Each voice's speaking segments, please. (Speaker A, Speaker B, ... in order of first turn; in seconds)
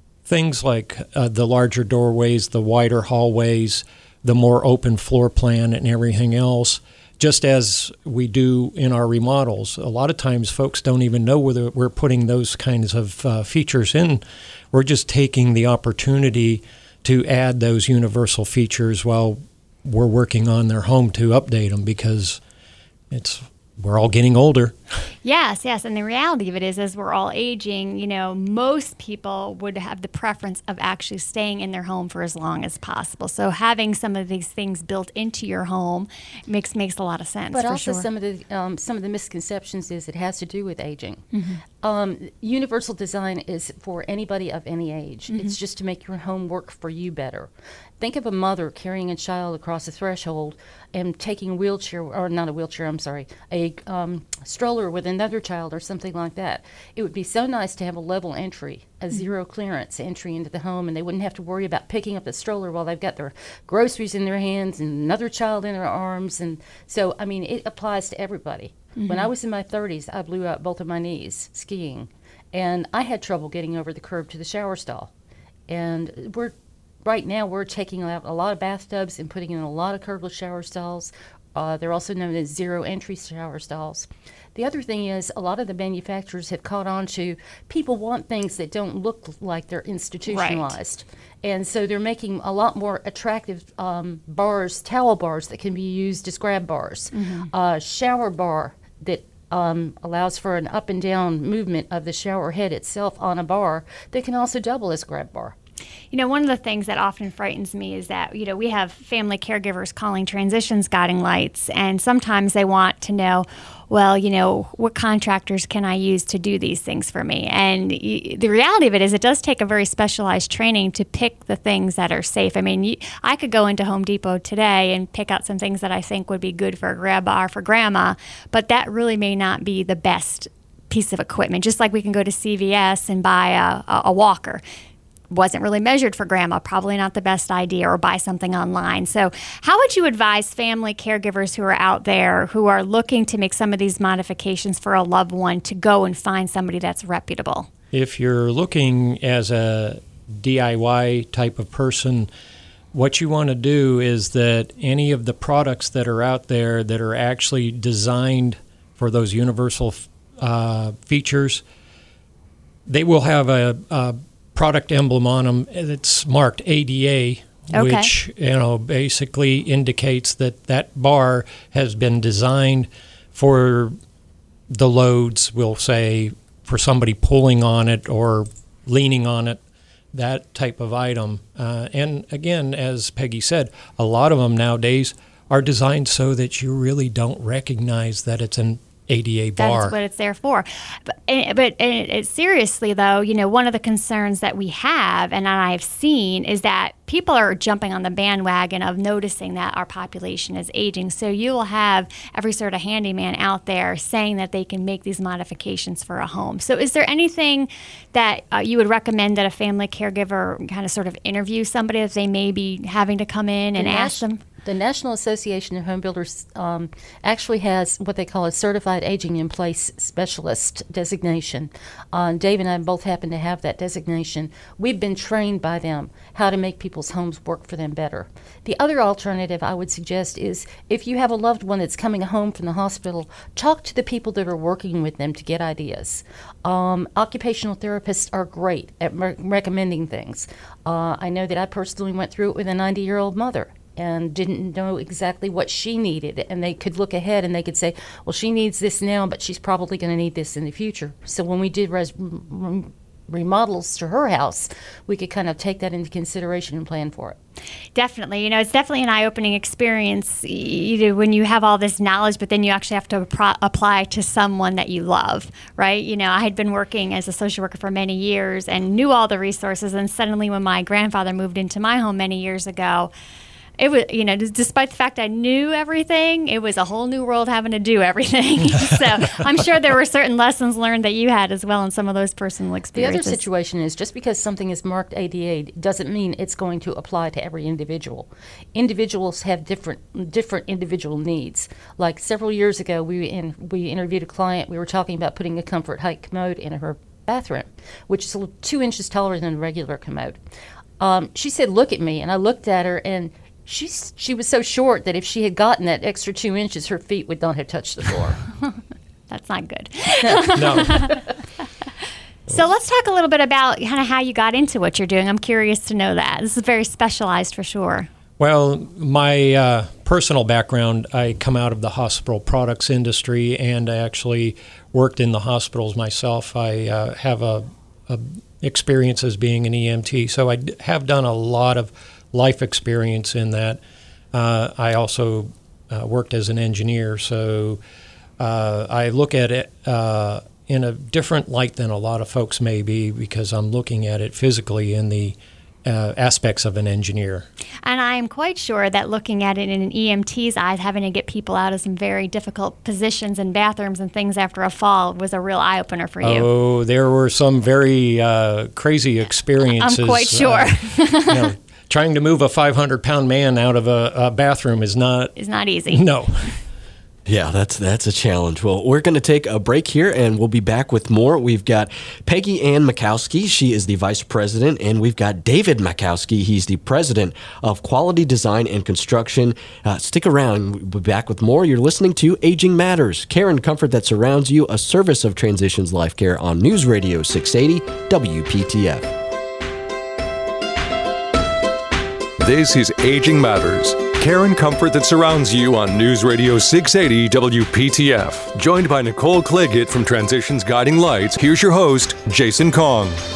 Speaker A: 0.3-22.4, 23.1-24.8, 147.9-152.3, 152.9-161.6, 162.9-173.9, 174.7-179.6, 180.1-190.0, 310.5-311.2, 318.4-333.8, 334.3-337.8, 338.4-347.5, 356.2-365.3, 365.9-366.6
Speaker B: 25.2-38.1, 41.3-41.6, 69.0-69.3, 90.3-90.8, 97.1-97.5, 106.1-134.6, 135.3-147.7, 167.7-168.1, 189.6-214.4, 257.9-273.1, 273.8-283.4, 309.3-311.2, 312.5-318.1, 347.8-356.5, 359.8-361.5, 365.4-366.1
Speaker C: 37.5-41.3, 41.8-75.1, 75.7-105.6, 213.8-257.4, 282.9-300.4, 301.0-308.4
Speaker D: 367.3-389.1
Speaker E: 392.4-403.2